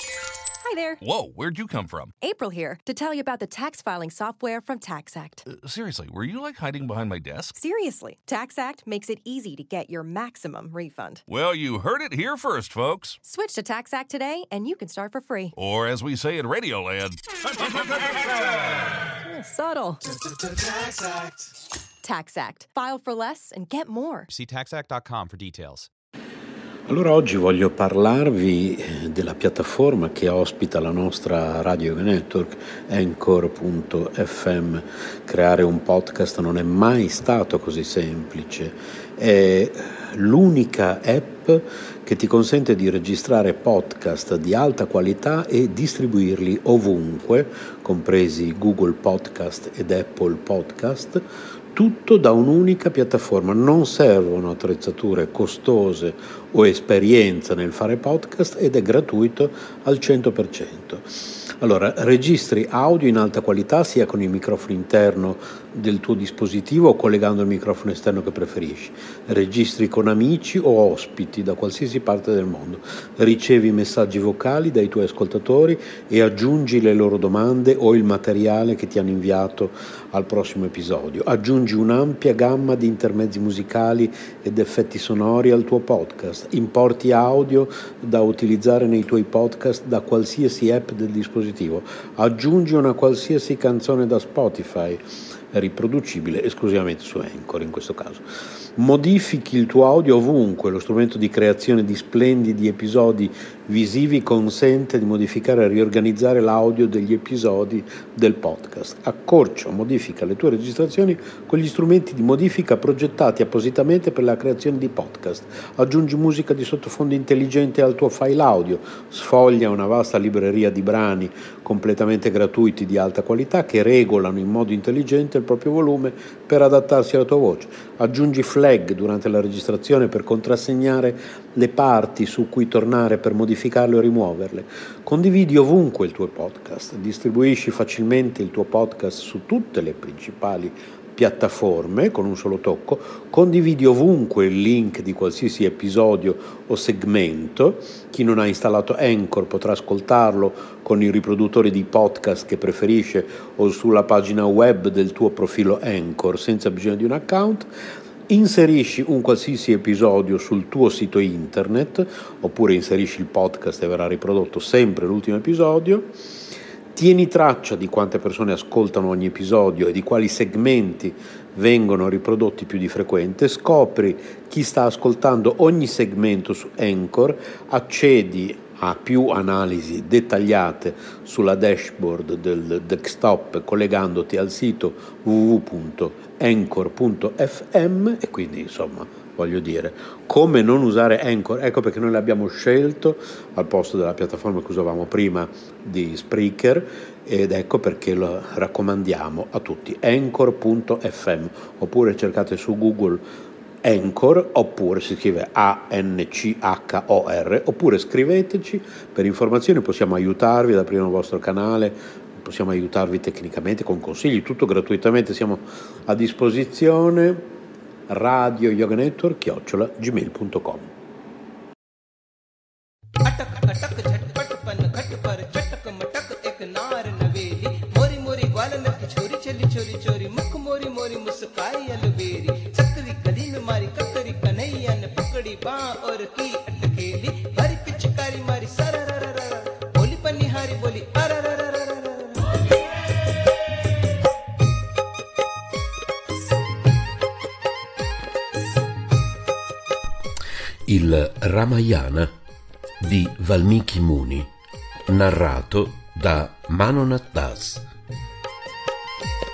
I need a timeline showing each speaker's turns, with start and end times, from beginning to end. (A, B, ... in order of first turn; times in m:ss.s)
0:00.6-0:01.0 A
0:01.0-0:02.1 B
0:02.2-0:05.5 A
0:05.5-0:07.6 B
0:07.6-0:11.2 A
0:11.3-0:13.2 B
0:13.2-0:15.6 A
0:15.6-0:19.0 B
0:19.2-0:20.0 A
0:20.0-0:21.5 C
0:22.0-0:24.3 A
0:24.3-0:25.9 C
0:26.9-2:37.7 D
2:38.3-2:46.2 D
2:46.9-3:23.2 D
3:23.8-3:37.5 D
3:38.1-3:40.9 D
3:43.2-4:02.7 E
4:10.9-4:12.3 F
4:13.0-4:14.5 F
4:15.1-4:17.8 F